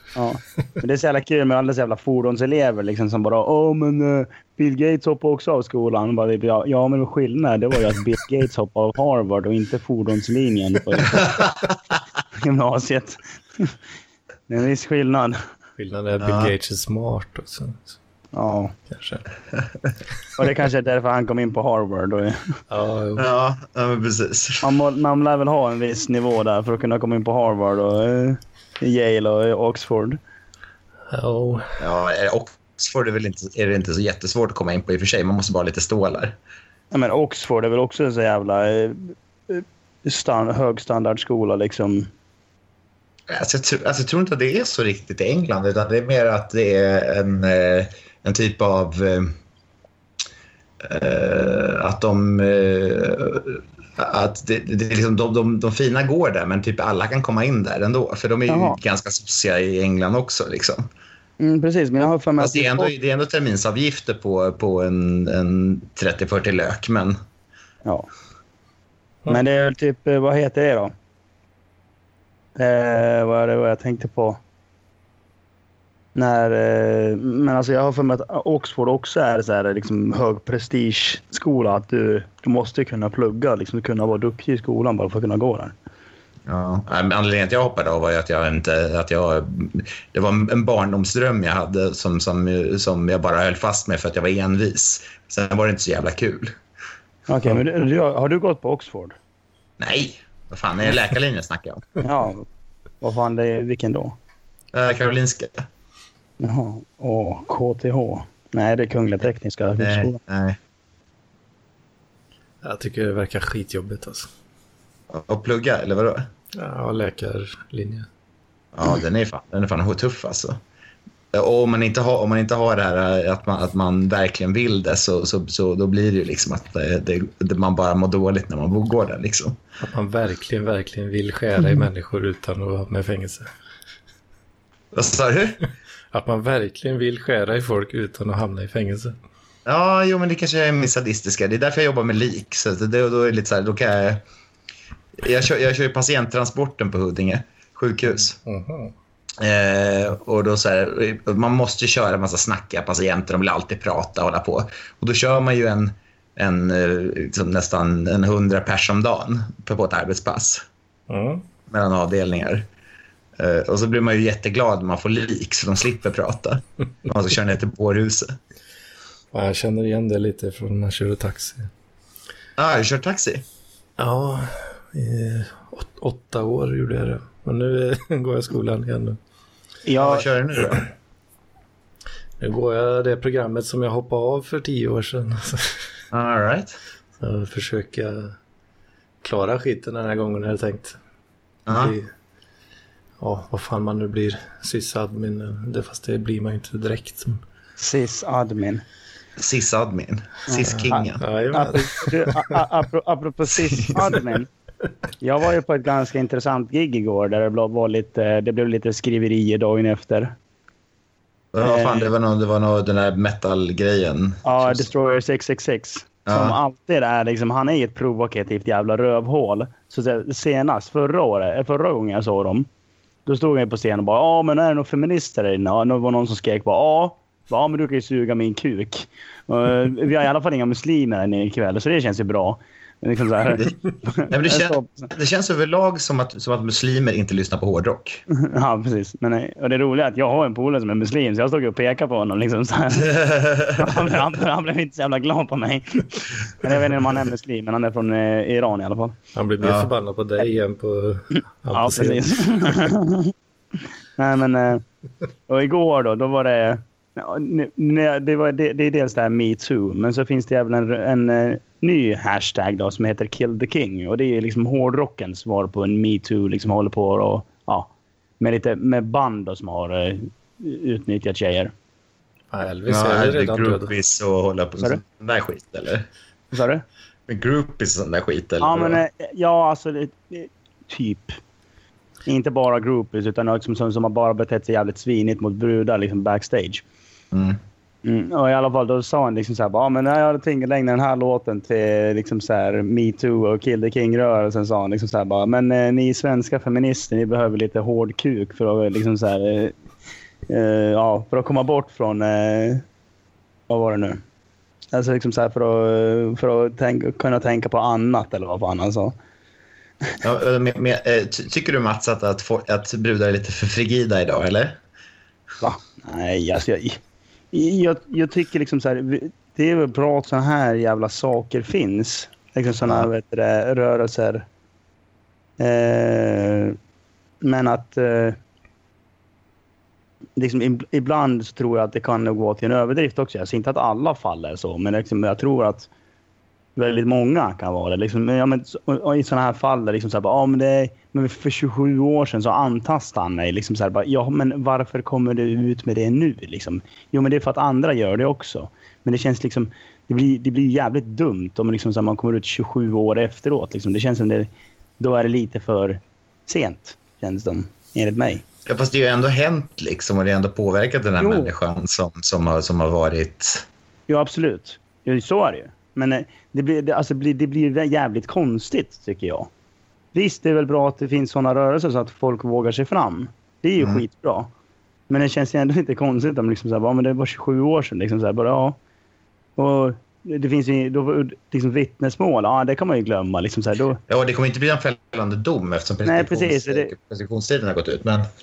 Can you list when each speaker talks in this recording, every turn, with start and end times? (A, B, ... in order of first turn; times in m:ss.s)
0:00.2-0:11.4 A
0:11.1-0:11.7 B
0:12.4-0:13.7 A
0:14.5-0:15.4 A
0:15.8-0:17.9 C
0:16.2-0:16.5 B
0:18.3-0:18.7 A
0:18.9-0:19.2 C
0:20.4-0:22.6 A
0:22.7-0:23.3 C
0:23.2-0:24.6 B
0:24.6-0:30.2 A
0:31.1-0:31.8 C
0:31.8-0:36.4 B
0:36.9-0:42.1 A
0:43.3-0:49.4 B
0:50.8-1:00.8 B
0:58.5-0:58.8 A
1:01.4-1:02.9 A
1:02.4-1:07.2 B
1:09.3-1:10.9 A
1:12.6-1:14.4 A
1:16.2-1:25.8 A
1:26.5-1:36.6 B
1:37.3-1:39.2 A
1:39.8-1:42.0 B
1:42.0-1:42.5 A
1:43.0-1:44.2 A
1:44.7-1:45.6 B
1:46.4-1:50.2 A
1:49.8-1:50.6 B
1:52.6-1:54.3 C
1:55.1-1:56.3 B
1:56.6-1:58.1 C
1:58.7-2:00.6 B
2:01.3-2:09.6 B
2:09.8-2:13.5 C
2:14.9-2:15.7 B
2:16.1-2:19.2 C
2:19.7-2:24.2 B
2:25.2-2:28.4 B
2:28.2-2:28.9 C
2:29.4-2:40.6 B
2:41.1-2:41.5 C
2:41.7-2:42.7 B
2:43.4-2:48.4 B
2:49.3-2:51.7 C
2:52.6-2:53.4 B
2:54.0-2:59.2 C
2:59.8-3:00.3 A
3:00.0-3:00.9 B
3:02.4-3:05.8 C
3:06.1-3:06.8 B
3:07.2-3:08.3 C
3:09.2-3:11.0 C
3:11.7-3:11.9 B
3:11.7-3:12.1 C
3:13.2-3:17.4 C
3:17.8-3:18.8 A
3:19.4-3:21.2 B
3:20.5-3:24.5 A
3:20.7-3:22.4 C
3:23.5-3:24.3 B
3:25.2-3:30.3 A
3:31.5-3:34.9 B
3:31.6-3:32.1 A
3:34.4-3:42.7 A
3:36.3-3:36.6 B
3:43.3-3:55.1 A
3:53.5-3:58.2 B
3:58.3-4:03.2 A
4:03.1-4:04.0 B
4:03.7-4:09.2 A
4:09.3-4:12.7 C
4:09.6-4:09.9 B
4:11.7-4:13.3 A
4:14.2-4:14.8 A
4:15.5-4:31.7 A
4:32.5-4:33.9 C
4:32.9-4:36.1 B
4:36.5-4:36.8 A
4:37.3-4:39.0 B
4:38.6-4:41.4 A
4:42.3-4:46.8 A
4:47.3-4:47.6 B
4:48.0-4:59.8 A
5:00.5-5:02.8 A
5:03.7-5:04.2 A
5:04.9-5:09.2 A
5:10.2-5:14.8 B
5:15.6-5:17.0 A
5:17.5-5:24.4 A
5:25.6-5:26.8 A
5:27.4-5:28.4 A
5:30.4-5:35.9 A
5:36.8-5:54.5 A
5:55.0-5:58.4 A
5:58.7-6:03.6 B
6:01.2-6:01.5 A
6:04.1-6:09.5 A
6:10.1-6:14.5 A
6:13.8-6:14.0 B
6:15.1-6:18.8 A
6:19.6-6:24.0 A
6:24.1-6:28.3 B
6:26.0-6:26.9 A